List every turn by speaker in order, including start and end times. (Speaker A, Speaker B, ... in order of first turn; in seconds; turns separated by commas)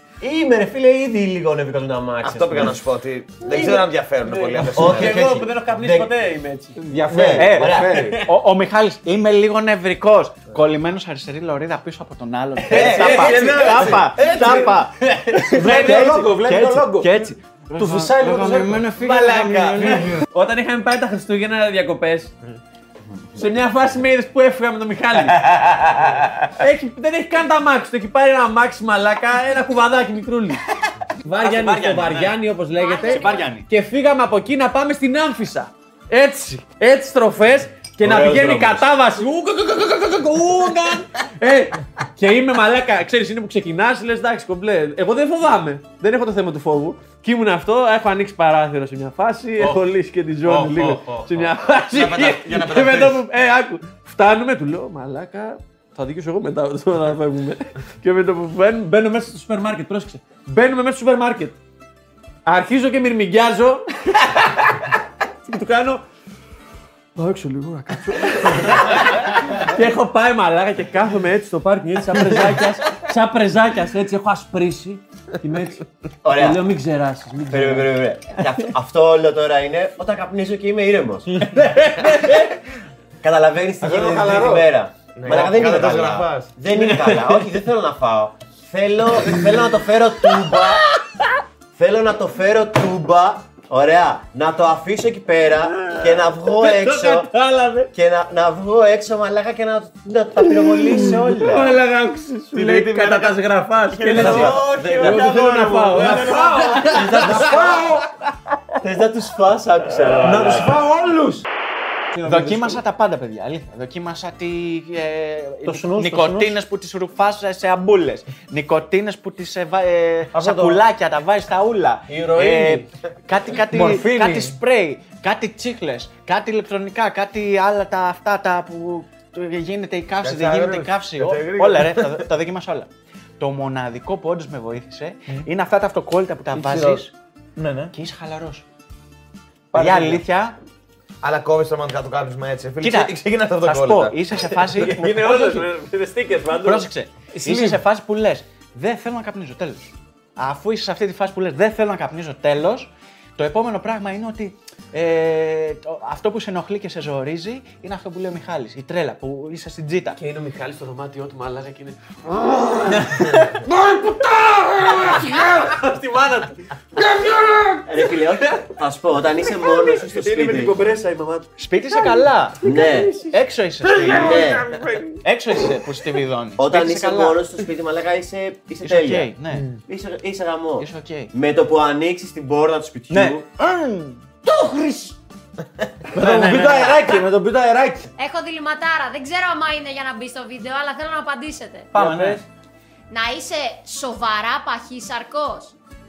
Speaker A: 0.2-2.8, Speaker B: 2.2-5.3, Speaker C: 3.4-6.8, Speaker A: 4.8-6.1, Speaker D: 6.8-8.2, Speaker A: 7.1-8.2, Speaker E: 7.3-14.9, Speaker C: 12.6-16.1, Speaker B: 12.7-13.8, Speaker A: 12.7-14.8, Speaker D: 15.5-18.9, Speaker E: 15.6-20.2, Speaker A: 19.1-19.9, Speaker C: 19.4-22.3, Speaker C: 23.4-25.4, Speaker E: 25.8-26.1, Speaker C: 26.5-30.6, Speaker C: 31.2-61.6, Speaker E: 31.4-32.4, Speaker F: 32.8-33.5, Speaker E: 33.0-33.7, Speaker A: 38.0-38.8, Speaker E: 50.4-51.5, Speaker B: 51.9-53.2, Speaker C: 62.5-65.0, Speaker C: 65.5-66.0, Speaker C: 67.2-78.4, Speaker A: 76.2-76.8, Speaker A: 77.5-81.5, Speaker C: 81.4-82.5, Speaker A: 83.2-90.8, Speaker D: 83.8-84.7, Speaker B: 85.2-86.5, Speaker C: 86.7-87.5, Speaker C: 90.2-91.0, Speaker A: 91.7-97.3, Speaker C: 95.7-97.9, Speaker A: 97.9-101.7, Speaker C: 100.5-107.9, Speaker B: 102.5-103.4, Speaker B: 103.9-105.1, Speaker A: 104.1-107.8, Speaker D: 104.2-104.6, Speaker D: 106.0-108.0, Speaker B: 106.9-107.8, Speaker A: 108.8-110.8, Speaker D: 110.2-111.5, Speaker D: 112.1-112.8, Speaker E: 112.3-137.1, Speaker D: 115.7-116.6, Speaker D: 120.3-120.8, Speaker C: 122.1-122.9, Speaker D: 123.7-124.6, Speaker B: 130.2-132.2, Speaker D: 136.6-137.0, Speaker D: 137.6-137.9, Speaker E: 137.9-138.7, Speaker D: 139.7-140.2, Speaker E: 139.7-140.6, Speaker B: 141.2-144.2, Speaker E: 142.8-145.7, Speaker C: 144.7-146.9, Speaker E: 146.6-160.2, Speaker D: 147.5-147.7, Speaker C: 160.2-168.7, Speaker A: 167.9-170.8, Speaker C: 169.4-175.2, Speaker E: 171.6-174.4, Speaker A: 172.6-173.1, Speaker A: 174.1-174.7, Speaker E: 175.2-177.4, Speaker A: 176.6-179.3, Speaker E: 178.8-179.7, Speaker D: 179.5-179.8, Speaker A: 179.9-183.4, Speaker E: 180.8-181.3, Speaker E: 183.1-184.3, Speaker D: 186.1-188.1, Speaker B: 186.2-186.9, Speaker F: 188.2-191.9, Speaker E: 191.9-192.4, Speaker C: 192.0-192.4, Speaker D: 192.0-192.4, Speaker F: 193.1-195.8